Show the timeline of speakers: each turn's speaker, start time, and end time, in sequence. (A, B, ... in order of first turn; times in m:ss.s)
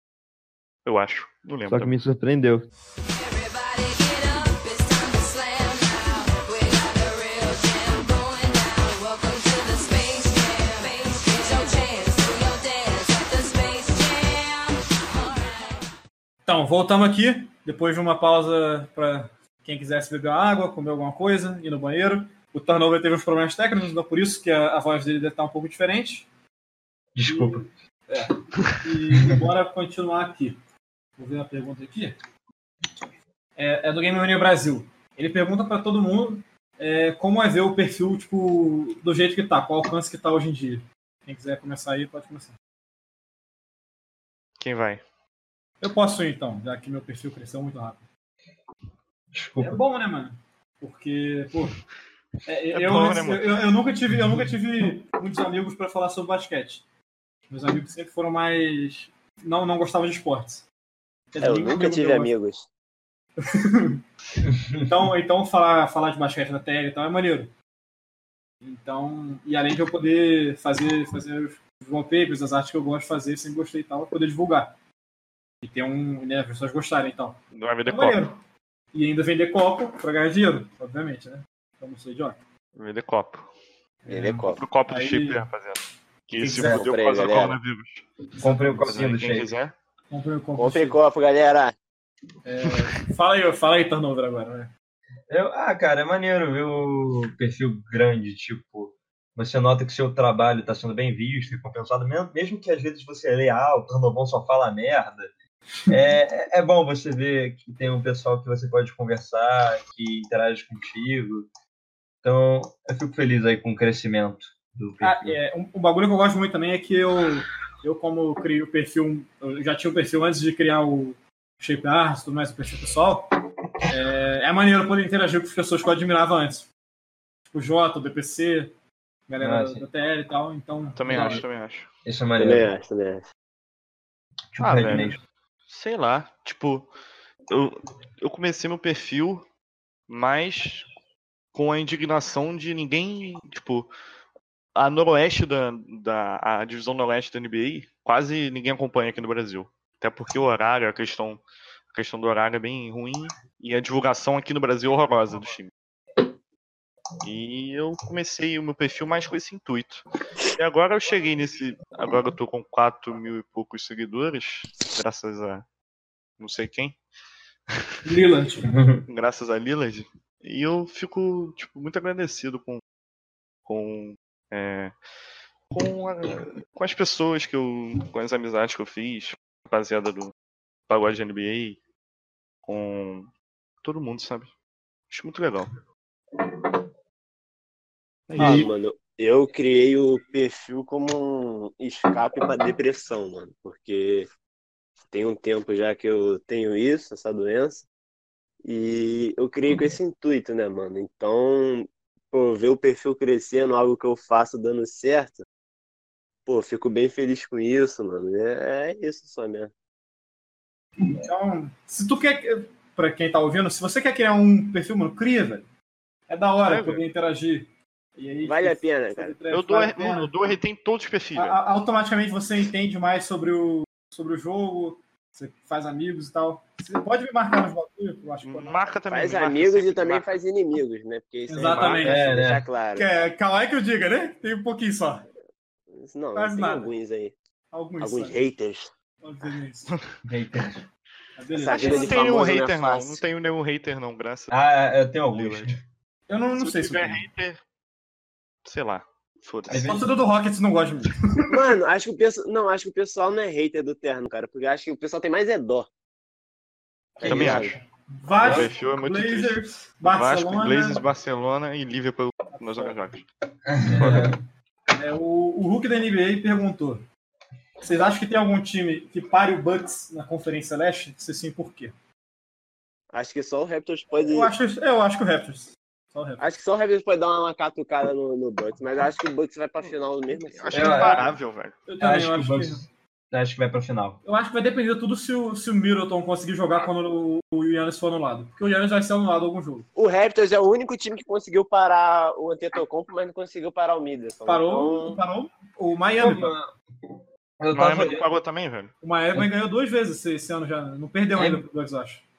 0:00.8-0:02.0 A
0:01.7-0:02.7 B
0:03.1-0:15.8 C
0:16.5-0:26.3 D
0:27.2-0:27.7 B
0:27.3-0:30.6 D
0:31.2-0:32.2 D
0:33.6-0:42.5 D
0:44.6-0:45.0 A
0:45.8-0:48.0 D
0:49.3-0:49.8 B
0:49.6-0:51.8 D
0:52.4-0:56.8 D
0:52.7-0:53.7 A
0:57.5-1:00.6 D
1:01.3-1:02.3 D
1:01.4-1:02.7 E
1:03.4-1:04.0 D
1:04.8-1:07.5 D
1:08.6-1:14.8 D
1:15.6-1:18.4 D
1:17.5-1:18.3 A
1:18.9-1:22.4 D
1:22.8-1:23.5 A
1:24.0-1:25.4 D
1:24.1-1:24.6 E
1:24.6-1:28.1 A
1:26.4-1:26.8 D
1:26.6-1:27.6 E
1:28.4-1:28.9 D
1:28.4-1:29.5 B
1:28.8-1:29.8 A
1:30.1-1:31.0 D
1:30.6-1:31.8 E
1:32.4-1:34.7 D
1:35.3-1:45.3 B
1:45.9-1:51.5 B
1:52.2-1:55.4 B
1:55.0-2:06.7 D
2:07.5-2:08.7 D
2:09.3-2:11.4 D
2:09.4-2:09.8 B
2:11.0-2:11.9 A
2:11.1-2:11.4 B
2:12.0-2:12.7 B
2:12.4-2:13.3 E
2:14.5-2:15.2 B
2:14.6-2:16.9 A
2:17.5-2:19.4 A
2:20.1-2:20.9 A
2:21.5-2:23.9 A
2:24.8-2:31.4 A
2:31.9-2:35.7 A
2:37.2-2:45.6 A
2:46.4-2:47.0 A
2:48.0-2:48.7 D
2:48.7-2:49.0 B
2:49.1-2:52.8 A
2:53.7-2:54.9 A
2:55.7-3:00.3 A
3:00.9-3:01.8 A
3:02.7-3:03.3 A
3:03.8-3:04.5 A
3:05.1-3:05.8 A
3:08.3-3:08.6 A
3:08.4-3:14.3 E
3:08.4-3:08.7 B
3:15.1-3:17.9 E
3:18.6-3:25.4 E
3:26.5-3:29.7 E
3:31.0-3:35.6 D
3:36.3-3:40.3 D
3:36.6-3:37.0 A
3:38.4-3:39.4 E
3:39.5-3:41.6 A
3:41.4-3:48.8 D
3:48.4-3:50.4 A
3:49.1-3:53.1 E
3:51.5-3:52.4 D
3:51.7-3:52.0 A
3:52.0-3:52.6 B
3:53.0-3:55.3 D
3:55.9-3:57.4 E
3:56.4-3:56.9 D
3:57.7-3:58.4 D
3:58.0-3:58.9 E
3:59.2-4:00.0 D
4:00.2-4:00.8 B
4:01.4-4:02.2 D
4:01.5-4:03.2 E
4:01.7-4:04.6 A
4:04.5-4:05.8 B
4:05.3-4:05.7 A
4:06.3-4:07.2 D
4:06.6-4:07.6 A
4:08.6-4:10.0 A
4:09.7-4:10.1 B
4:09.8-4:11.7 D
4:11.5-4:15.9 E
4:17.2-4:17.8 E
4:17.2-4:17.8 B
4:17.2-4:17.8 A
4:18.1-4:21.0 D
4:18.3-4:23.2 A
4:18.4-4:18.7 B
4:22.6-4:23.0 D
4:23.7-4:24.4 B
4:23.9-4:24.3 D
4:24.9-4:27.0 D
4:27.8-4:31.9 D
4:33.1-4:34.5 E
4:34.3-4:36.4 D
4:36.4-4:41.0 E
4:40.3-4:41.8 A
4:40.7-4:41.3 B
4:40.8-4:41.3 D
4:41.9-4:42.8 D
4:42.0-4:44.2 B
4:44.2-4:49.9 D
4:50.0-4:55.2 E
4:54.5-4:56.5 D
4:56.2-4:56.7 B
4:57.6-4:58.3 B
4:57.7-4:58.9 A
4:59.0-5:02.2 D
5:01.4-5:01.6 B